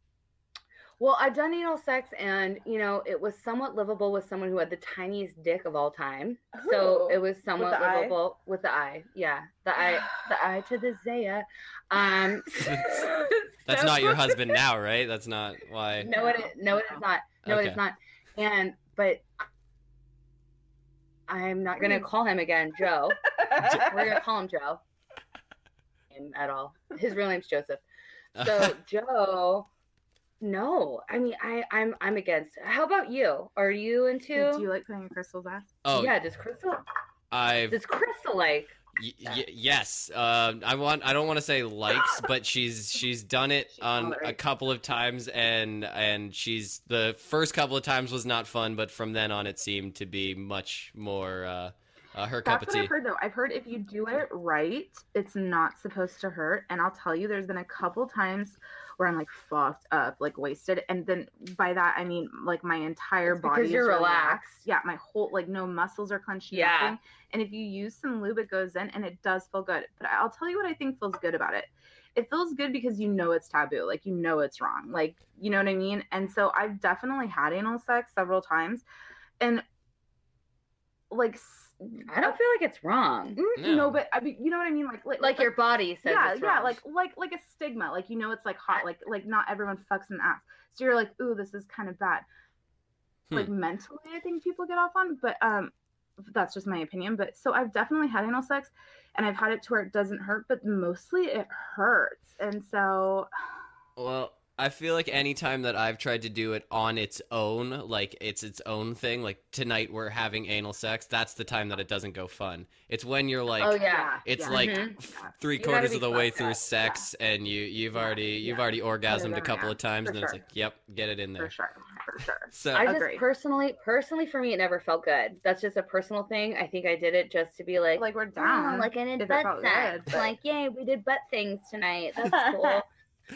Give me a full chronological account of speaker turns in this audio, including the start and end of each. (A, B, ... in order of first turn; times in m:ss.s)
0:01.0-0:14.6 A
0:06.6-0:08.2 B
0:12.6-0:13.0 C
0:13.7-0:16.1 C
0:16.0-0:19.4 A
0:16.1-0:16.4 B
0:17.4-0:17.8 C
0:21.3-0:24.8 A
0:21.8-0:22.1 B
0:23.5-0:23.9 B
0:26.1-0:27.8 A
0:28.4-0:28.8 C
0:28.4-0:29.7 A
0:30.4-0:34.7 A
0:34.3-0:35.7 B
0:35.8-0:36.2 C
0:35.9-0:36.8 A
0:37.3-0:37.8 C
0:37.7-0:39.4 A
0:39.0-0:52.9 C
0:43.8-0:44.4 B
0:52.4-1:18.8 B
1:03.3-1:04.6 A
1:06.5-1:07.0 A
1:21.1-1:22.4 B
1:22.1-1:23.4 A
1:23.4-1:25.5 B
1:23.6-1:24.0 C
1:25.2-1:26.8 A
1:26.0-1:32.3 B
1:33.3-1:43.3 B
1:44.0-2:01.5 C
1:53.6-1:55.0 A
1:53.8-1:55.3 B
1:55.6-1:57.1 A
1:58.0-2:00.4 B
2:01.4-2:03.2 B
2:02.5-2:02.9 C
2:02.8-2:12.9 A
2:08.0-2:10.4 B
2:12.3-2:12.7 B